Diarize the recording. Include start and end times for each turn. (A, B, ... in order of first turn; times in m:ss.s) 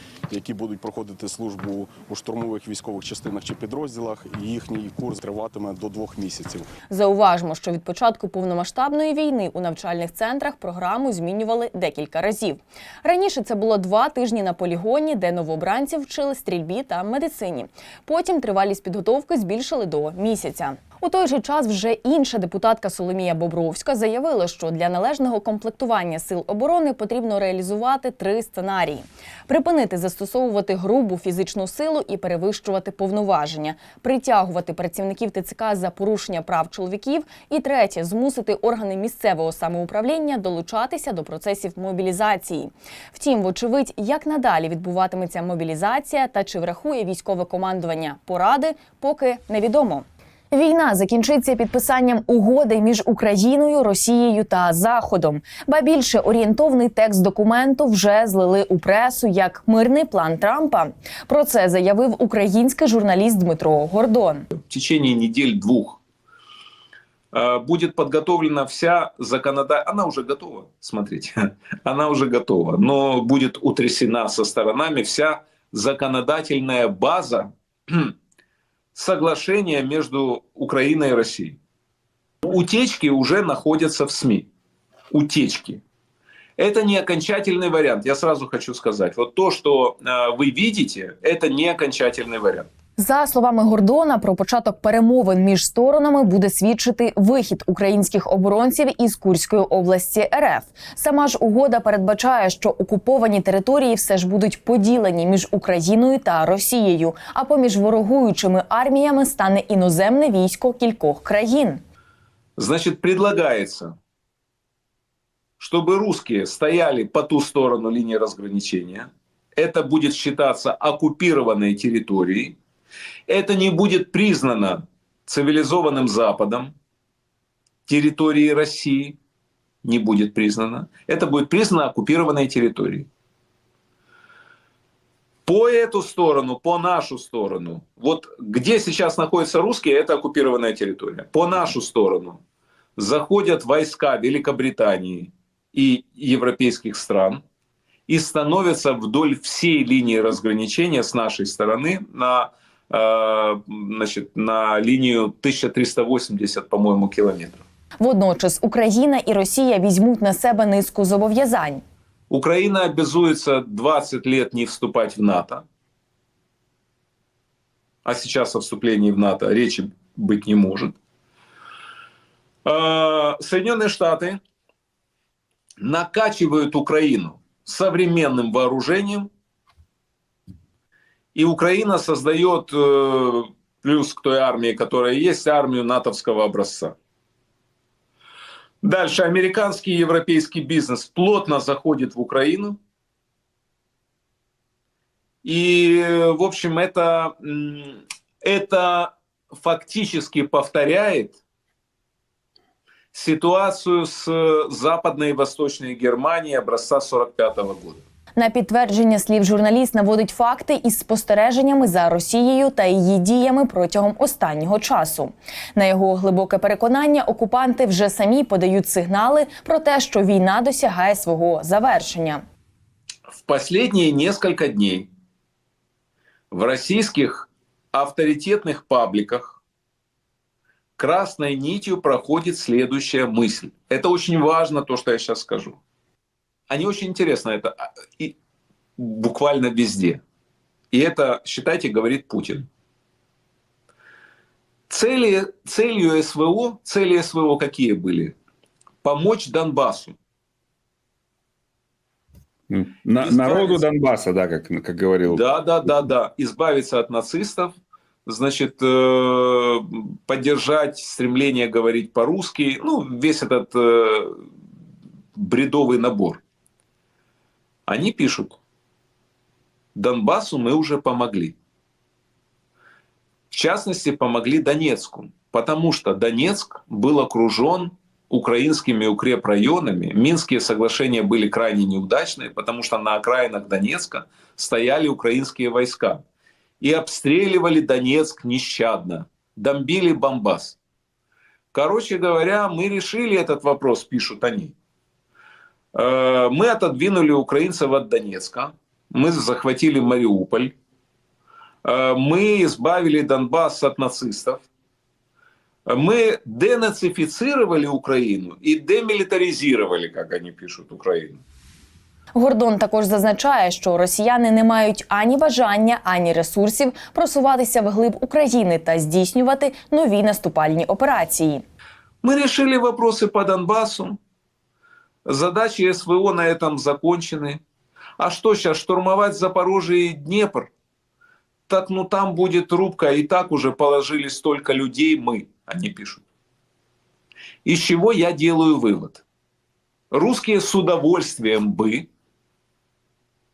0:00.3-0:06.7 A
0:06.9-1:04.5 B
1:04.6-1:06.0 C
1:07.3-1:18.1 C
1:18.9-1:21.6 C
1:22.4-1:24.5 C
1:25.1-1:25.8 C
1:26.6-1:32.7 C
1:33.0-1:51.8 B
1:52.6-1:53.9 C
1:55.6-2:02.6 C
2:03.3-2:06.7 C
2:07.9-2:09.2 C
2:09.8-2:13.1 C
2:15.4-2:22.4 C
2:23.0-2:27.4 C
2:28.1-2:37.6 C
2:38.0-2:41.8 B
2:42.3-2:45.6 C
2:48.0-2:50.9 C
2:52.6-2:54.4 C
2:55.8-2:59.3 C
3:01.3-3:06.9 C
3:08.8-3:12.8 C
3:15.4-3:21.4 C
3:23.1-3:28.0 C
3:28.4-3:42.4 B
3:43.3-3:45.1 C
3:46.5-3:49.6 C
3:51.0-3:55.8 C
3:56.7-3:58.3 C
3:59.0-4:00.2 C
4:00.9-4:02.7 C
4:04.9-4:08.3 C
4:09.0-4:10.1 C
4:12.7-4:15.9 D
4:13.2-4:13.8 C
4:15.2-4:17.7 C
4:18.2-4:24.4 C
4:25.4-4:26.4 C
4:27.9-4:28.6 C
4:29.9-4:31.5 C
4:33.5-4:46.2 C
4:46.8-4:50.8 C
4:51.7-4:54.7 C
4:55.9-5:00.7 C
5:01.8-5:04.6 C
5:05.9-5:11.4 C
5:12.3-5:21.6 B
5:22.2-5:24.2 C
5:25.2-5:27.6 C
5:28.2-5:30.7 C
5:31.7-5:36.2 C
5:37.6-5:39.2 C
5:40.1-5:42.1 C